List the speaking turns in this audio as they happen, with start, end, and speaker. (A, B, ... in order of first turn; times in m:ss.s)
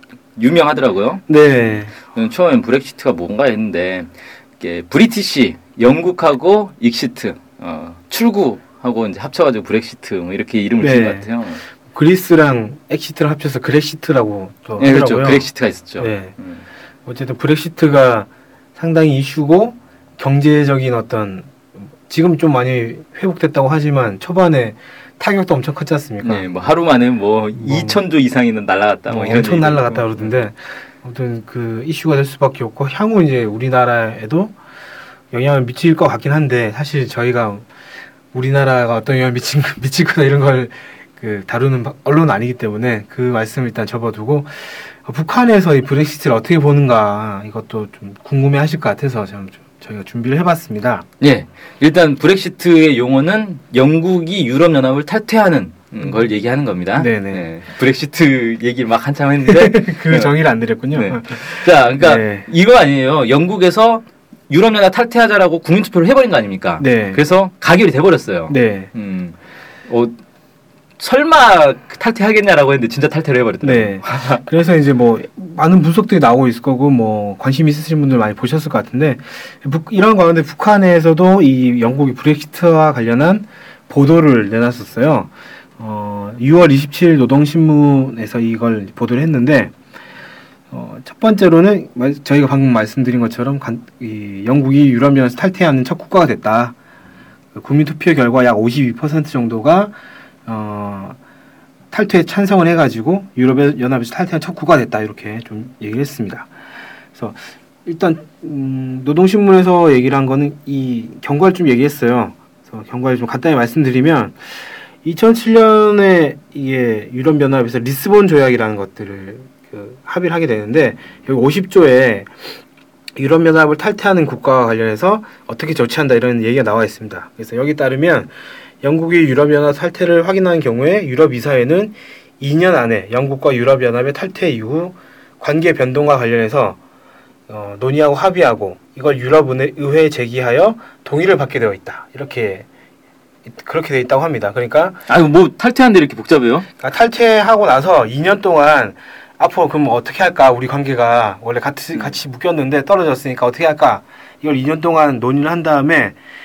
0:00.4-0:01.2 A
0:01.3-0:02.0 B
0:02.1-0:11.6 A
0:10.8-0:11.3 B
0:11.8-0:16.3 B
0:14.8-0:16.6 A
0:17.0-0:26.5 B
0:26.2-0:30.4 A
0:27.6-0:28.0 B
0:29.1-0:34.5 B
0:35.3-0:37.7 B
0:38.3-0:51.0 B
0:51.2-1:00.3 A
0:56.9-0:57.5 B
0:59.4-1:02.5 B
1:00.9-1:09.4 A
1:06.8-1:07.2 B
1:08.5-1:08.9 B
1:09.9-1:10.2 A
1:11.0-1:14.4 A
1:13.6-1:29.7 B
1:30.7-1:36.8 B
1:37.5-1:39.9 B
1:40.4-1:41.2 B
1:41.9-1:46.5 B
1:47.1-2:02.4 B
2:03.2-2:16.8 B
2:17.5-2:22.7 B
2:23.4-2:25.0 B
2:25.1-2:26.7 A
2:26.8-2:36.2 B